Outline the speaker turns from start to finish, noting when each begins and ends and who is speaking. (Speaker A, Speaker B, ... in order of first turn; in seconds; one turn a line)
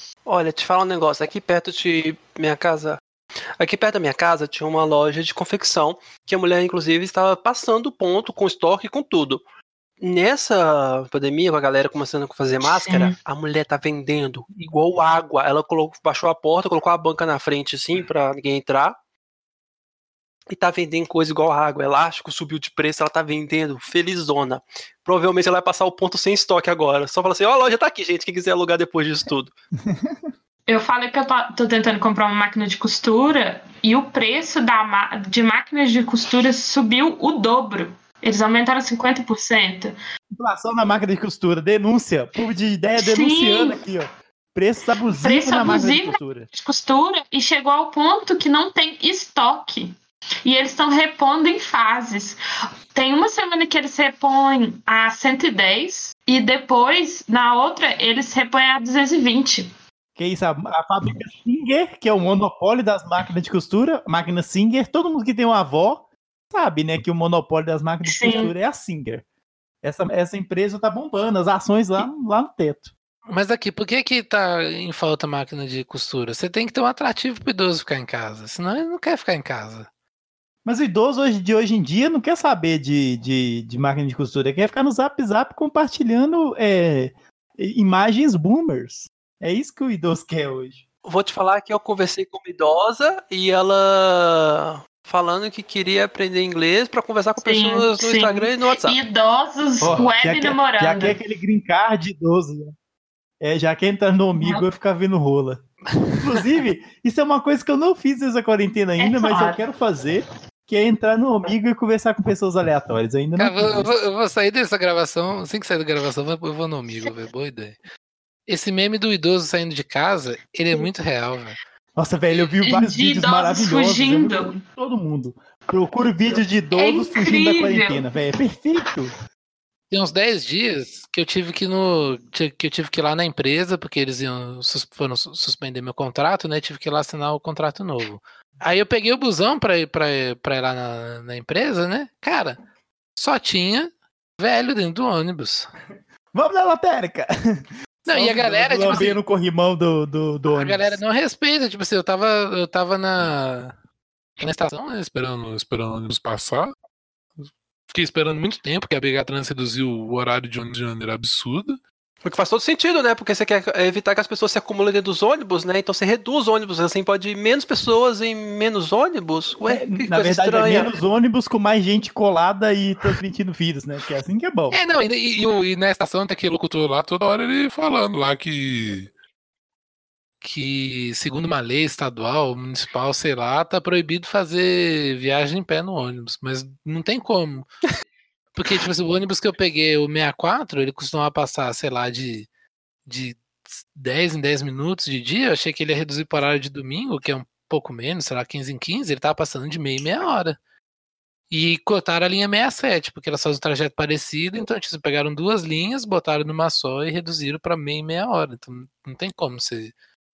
Speaker A: 0.2-3.0
Speaker A: 3.6-9.4
Speaker A: 10.0-19.0
Speaker B: 12.6-13.1
Speaker A: 20.5-29.5
Speaker C: 29.8-30.3
Speaker B: 30.7-39.9
Speaker C: 40.3-46.5
Speaker B: 43.0-43.8
Speaker B: 45.2-49.9
Speaker B: 50.4-52.4
Speaker B: 52.9-59.7
Speaker C: 60.1-69.2
Speaker B: 68.0-68.5
Speaker C: 69.8-72.9
Speaker D: 73.3-79.9
Speaker C: 80.6-90.8
Speaker A: 91.0-99.0
Speaker B: 97.4-101.2
Speaker C: 99.8-102.7
Speaker C: 103.4-105.6
Speaker B: 104.4-104.7
Speaker C: 106.2-113.9
Speaker B: 109.0-109.6
Speaker D: 113.4-117.8
Speaker D: 118.5-121.5
Speaker C: 122.0-129.1
Speaker B: 122.6-124.5
Speaker B: 126.3-128.0
Speaker D: 129.9-142.6
Speaker D: 143.2-145.7
Speaker C: 146.3-151.0
Speaker D: 148.1-149.2
Speaker D: 150.5-153.7
Speaker D: 154.4-156.7
Speaker D: 157.4-161.8
Speaker A: 162.2-170.9
Speaker C: 169.6-174.8
Speaker D: 174.7-179.0
Speaker D: 180.4-187.7
Speaker D: 188.5-192.5
Speaker D: 193.1-200.6
Speaker D: 201.5-209.9